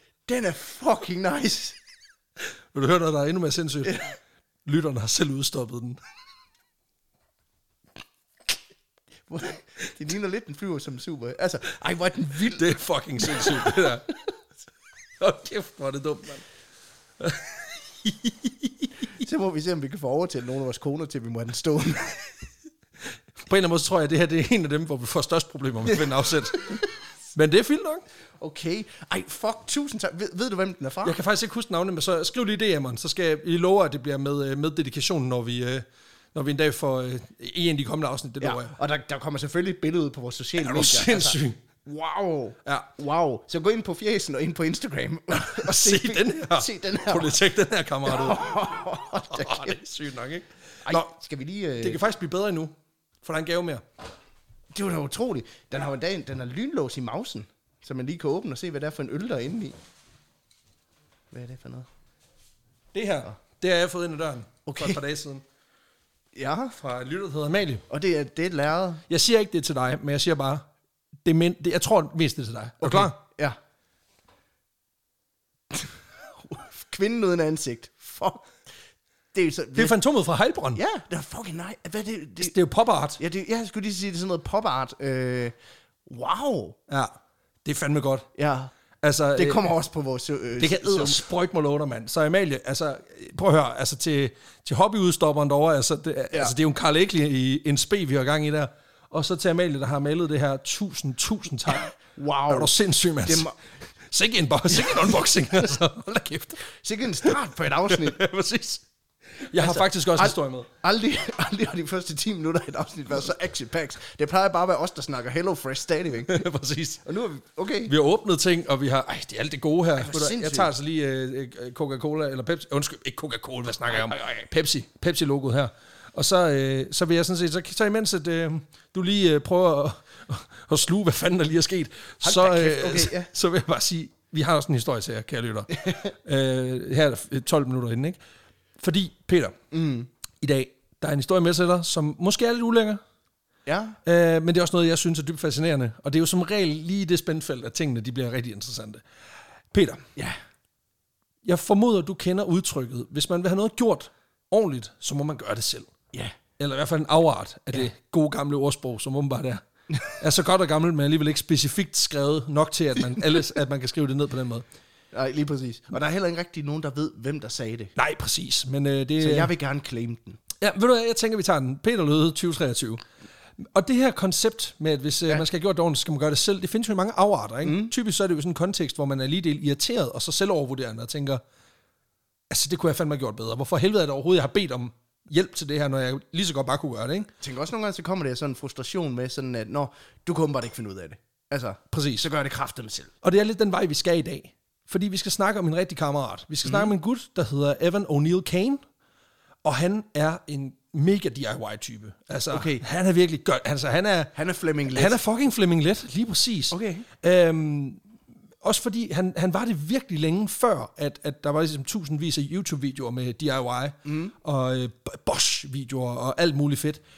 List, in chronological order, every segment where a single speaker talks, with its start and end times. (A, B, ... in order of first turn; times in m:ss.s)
0:00.3-0:01.8 A
0:02.7-0:04.1 B
0:04.6-0:06.0 B
0:09.3-0:14.0 A
0:12.5-0:14.2 B
0:15.2-0:16.4 B
0:17.2-0:18.9 B
0:19.1-0:22.2 A
0:23.4-0:28.0 B
0:28.4-0:31.2 A
0:31.0-0:38.8 B
0:38.4-0:47.4 A
0:40.6-0:41.6 B
0:45.3-0:48.6 B
0:48.0-0:49.8 A
0:49.2-0:51.1 B
0:50.8-0:52.0 A
0:51.8-0:53.8 B
0:54.7-0:59.7 A
1:01.3-1:01.9 A
1:02.9-1:05.4 B
1:04.7-1:05.0 A
1:06.3-1:06.7 A
1:06.8-1:07.8 B
1:07.9-1:09.0 A
1:09.1-1:10.6 B
1:11.2-1:13.2 B
1:12.8-1:13.6 A
1:15.7-1:18.6 A
1:19.3-1:20.0 A
1:19.8-1:20.8 B
1:20.7-1:22.5 A
1:22.4-1:23.2 B
1:23.2-1:25.5 A
1:26.0-1:26.8 A
1:26.9-1:27.1 B
1:27.6-1:28.3 B
1:28.4-1:28.7 A
1:29.0-1:29.7 B
1:29.4-1:31.2 A
1:30.6-1:43.5 B
1:42.1-1:43.5 A
1:44.1-1:46.6 B
1:44.7-1:45.7 A
1:46.5-1:48.2 A
1:47.9-1:48.8 B
1:49.4-1:50.7 B
1:49.6-1:56.4 A
1:56.3-1:57.0 B
1:57.0-1:57.9 A
1:57.8-2:18.2 B
2:00.0-2:00.7 A
2:12.2-2:13.3 A
2:18.8-2:19.6 B
2:19.7-2:20.1 A
2:20.4-2:23.0 B
2:23.6-2:24.0 A
2:24.0-2:29.0 B
2:29.7-2:30.1 B
2:31.4-2:35.9 B
2:36.6-2:44.6 B
2:45.1-2:47.9 A
2:48.0-2:49.5 B
2:49.2-2:50.4 A
2:50.6-2:53.0 B
2:53.7-3:01.4 B
2:57.6-2:57.9 A
3:02.5-3:07.3 B
3:07.4-3:13.1 A
3:11.9-3:12.3 B
3:13.2-3:18.8 B
3:16.6-3:16.9 A
3:19.6-3:28.0 B
3:22.5-3:22.8 A
3:24.3-3:25.2 A
3:26.7-3:27.0 A
3:28.6-3:37.0 B
3:34.0-3:34.3 A